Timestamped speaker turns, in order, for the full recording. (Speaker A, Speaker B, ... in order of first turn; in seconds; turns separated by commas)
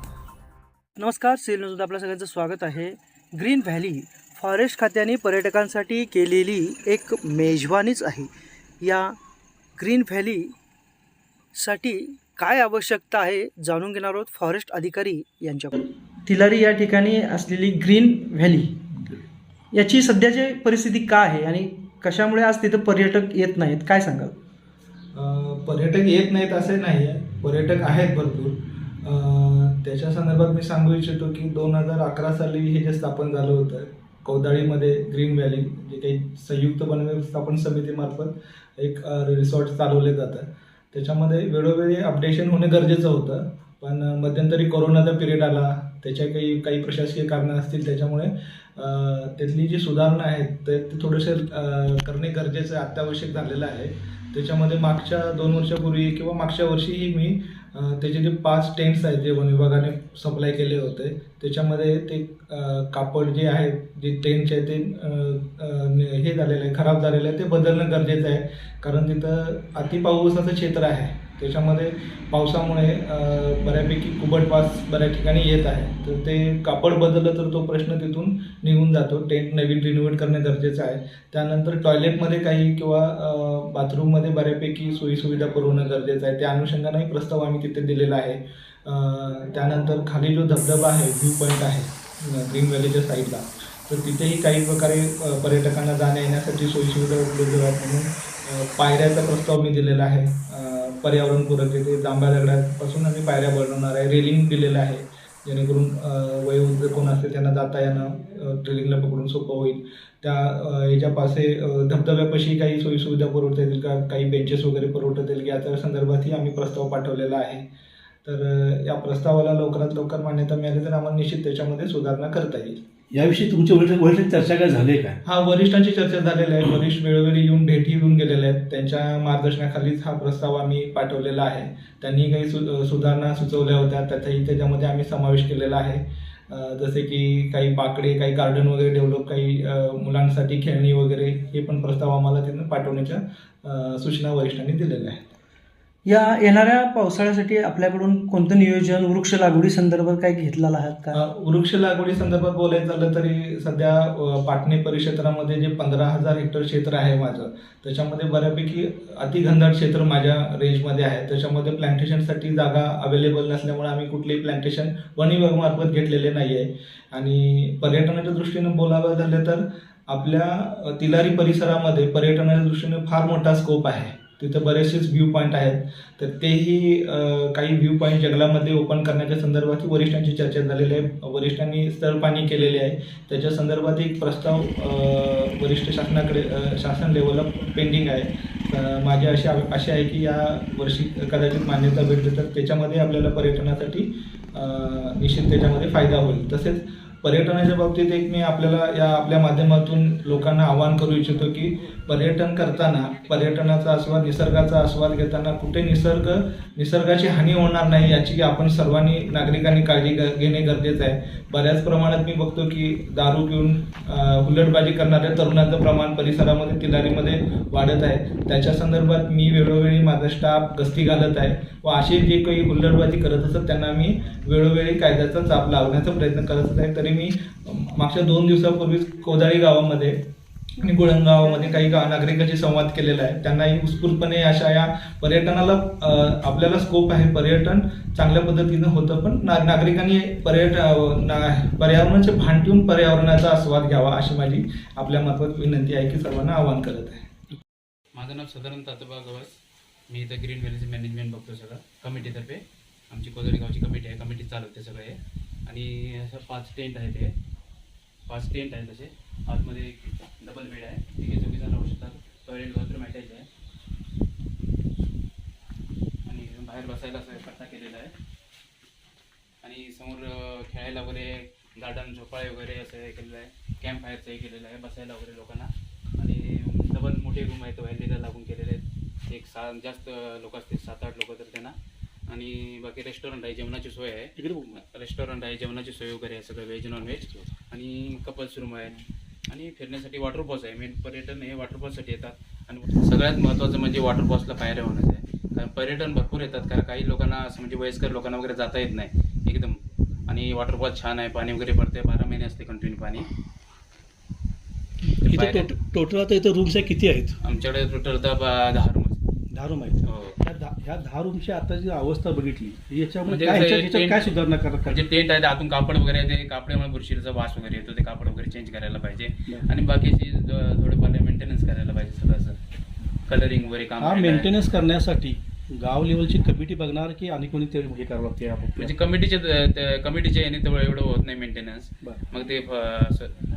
Speaker A: 1.0-9.2, Speaker A: 9.8-10.5, Speaker A: 11.6-18.8, Speaker A: 19.7-24.3, Speaker B: 25.1-117.7, Speaker B: 118.2-122.8, Speaker C: 123.1-125.2, Speaker B: 125.2-145.3, Speaker A: 146.1-151.2, Speaker B: 151.1-230.3, Speaker D: 202.6-204.1, Speaker B: 230.8-247.2, Speaker D: 248.1-249.6, Speaker D: 250.1-257.3, Speaker D: 258.3-263.5, Speaker D: 266.3-268.1, Speaker D: 269.6-281.8, Speaker D: 282.3-303.3, Speaker C: 284.4-284.8, Speaker D: 305.2-305.7, Speaker C: 305.3-307.4, Speaker D: 307.4-309.2, Speaker C: 309.5-315.1, Speaker D: 310.1-310.4, Speaker D: 313.3-322.6, Speaker D: 323.3-324.5, Speaker C: 324.0-329.1, Speaker D: 328.8-333.3